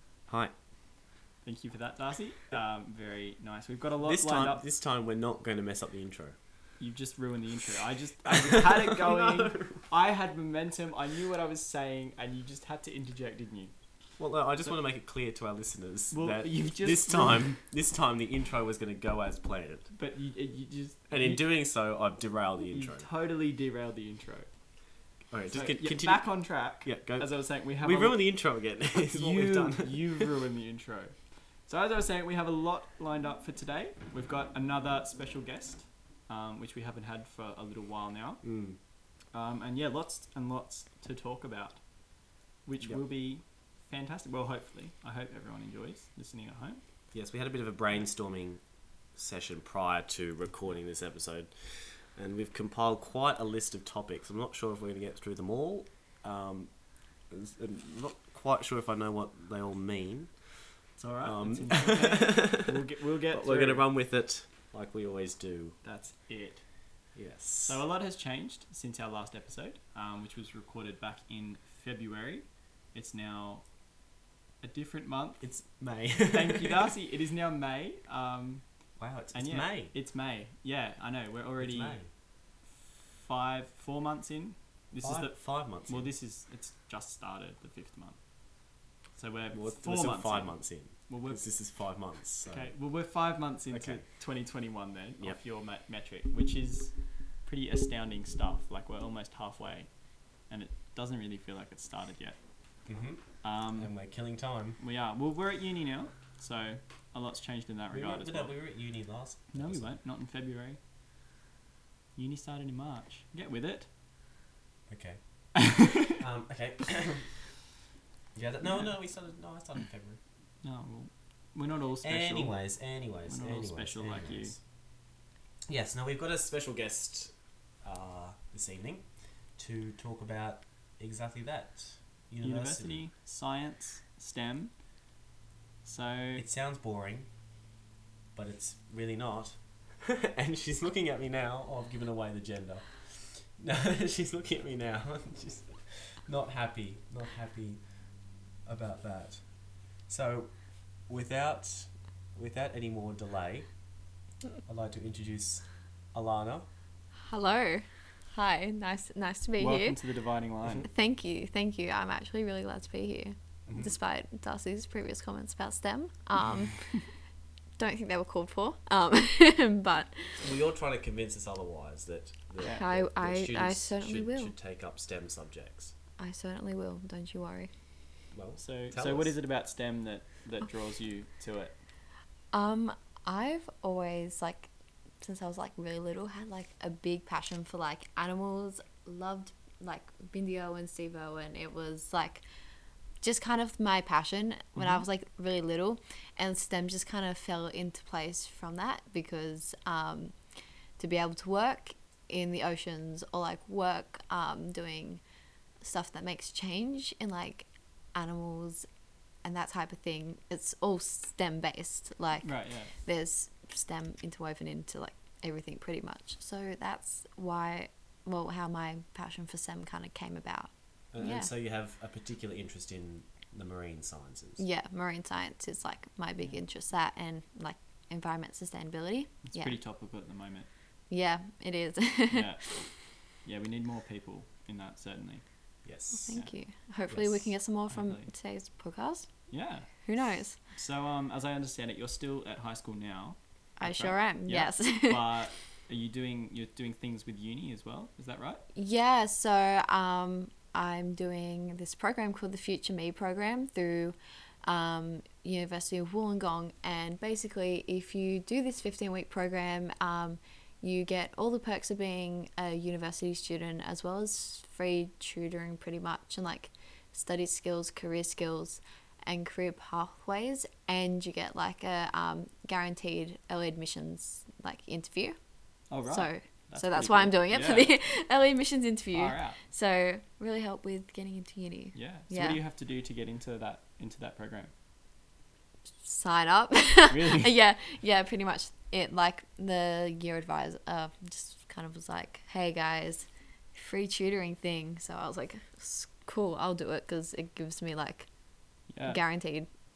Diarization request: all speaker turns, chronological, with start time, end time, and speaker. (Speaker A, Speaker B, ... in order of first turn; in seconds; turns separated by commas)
Speaker A: 0.3-0.5, Speaker B: 1.4-4.6, Speaker A: 4.0-6.4, Speaker B: 6.8-13.7, Speaker A: 8.3-9.9, Speaker A: 14.2-19.9, Speaker B: 16.1-17.4, Speaker B: 19.9-21.4, Speaker A: 21.1-23.1, Speaker B: 22.7-24.5, Speaker A: 25.3-30.3, Speaker B: 25.5-28.2, Speaker B: 29.1-38.4, Speaker A: 38.4-38.8, Speaker B: 39.3-41.8, Speaker B: 42.6-46.8, Speaker A: 47.1-48.6, Speaker A: 49.1-56.7, Speaker A: 57.3-60.7, Speaker B: 61.0-63.9, Speaker A: 61.2-65.8, Speaker B: 65.8-66.6, Speaker A: 67.2-67.8, Speaker B: 67.7-73.7, Speaker B: 74.6-75.5, Speaker A: 75.4-76.9, Speaker B: 76.3-78.6, Speaker A: 79.0-79.9, Speaker B: 79.3-82.0, Speaker A: 81.6-82.1, Speaker B: 83.2-88.2, Speaker A: 85.0-86.1, Speaker B: 89.1-91.5, Speaker A: 89.5-92.7, Speaker B: 92.5-99.9, Speaker A: 93.7-94.0, Speaker B: 100.4-102.4, Speaker A: 102.9-104.8, Speaker B: 103.4-103.9, Speaker B: 104.8-108.5, Speaker A: 107.9-110.0, Speaker B: 109.5-110.8, Speaker B: 112.2-113.9, Speaker A: 114.9-117.4, Speaker B: 115.6-116.2, Speaker A: 118.3-120.2, Speaker B: 118.6-119.0, Speaker B: 120.6-122.6, Speaker A: 122.0-124.6, Speaker B: 123.3-124.5, Speaker A: 125.7-133.0, Speaker B: 132.4-134.7, Speaker B: 135.8-136.4, Speaker A: 136.4-137.3, Speaker A: 138.3-147.8, Speaker A: 148.7-149.4, Speaker A: 150.1-150.5, Speaker A: 151.1-153.7, Speaker A: 154.7-156.7, Speaker C: 157.2-160.0, Speaker B: 159.6-160.9, Speaker C: 160.8-167.1, Speaker A: 163.7-163.9, Speaker B: 166.8-167.0, Speaker C: 167.8-170.4, Speaker A: 170.4-175.9, Speaker C: 172.6-174.5, Speaker C: 176.2-177.7, Speaker A: 178.3-179.4, Speaker B: 178.6-181.8, Speaker C: 182.5-184.7, Speaker C: 185.2-192.4, Speaker C: 193.2-200.3, Speaker B: 194.8-195.1, Speaker C: 201.0-205.2, Speaker C: 205.8-208.8, Speaker C: 209.4-221.5, Speaker B: 212.4-212.9, Speaker A: 221.1-224.6, Speaker C: 224.6-229.8, Speaker B: 229.5-230.7, Speaker C: 231.1-232.8, Speaker B: 232.3-232.8, Speaker B: 233.4-235.4, Speaker A: 235.8-236.4, Speaker C: 236.2-239.3, Speaker A: 237.1-237.5, Speaker B: 237.9-238.3, Speaker B: 239.5-239.9, Speaker C: 240.0-240.6, Speaker B: 240.7-248.6, Speaker C: 243.8-245.4, Speaker C: 248.8-275.4, Speaker B: 275.9-277.9, Speaker C: 276.1-282.6, Speaker B: 279.1-279.6, Speaker B: 281.9-284.7, Speaker C: 286.0-298.3, Speaker B: 287.1-287.5, Speaker B: 298.9-299.2, Speaker C: 299.1-299.7